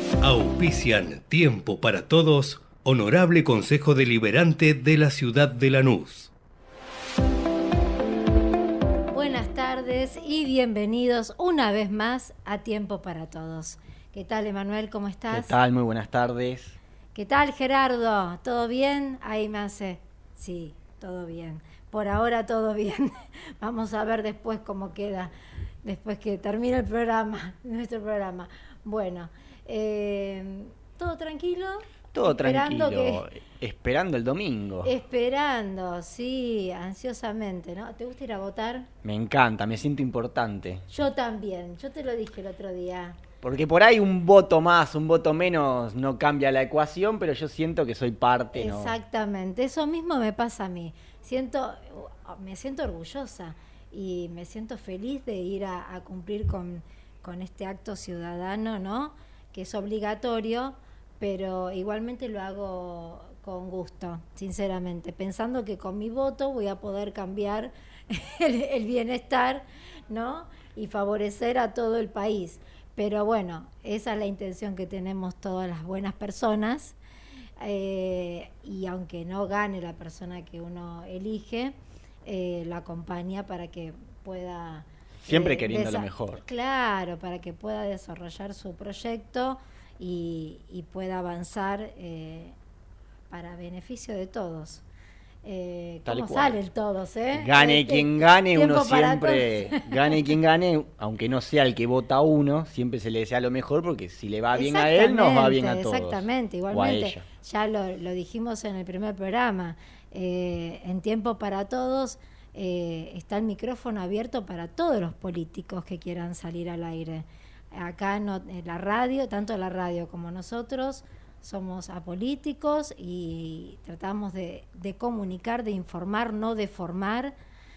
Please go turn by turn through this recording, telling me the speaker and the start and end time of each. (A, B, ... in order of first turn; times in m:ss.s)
0:00.2-0:06.3 A
0:09.1-0:15.6 B
0:15.3-0:16.8 C
0:17.1-0:25.3 B
0:25.8-0:33.2 B
0:32.1-0:34.9 C
0:34.8-0:38.9 B
0:39.0-0:40.9 C
0:40.9-0:43.2 B
0:43.4-0:49.0 C
0:48.6-1:17.0 B
1:17.6-1:32.6 B
1:25.2-1:26.4 C
1:33.3-1:34.8 B
1:35.4-1:39.9 B
1:36.0-1:36.6 C
1:37.3-1:47.2 C
1:44.5-2:07.3 B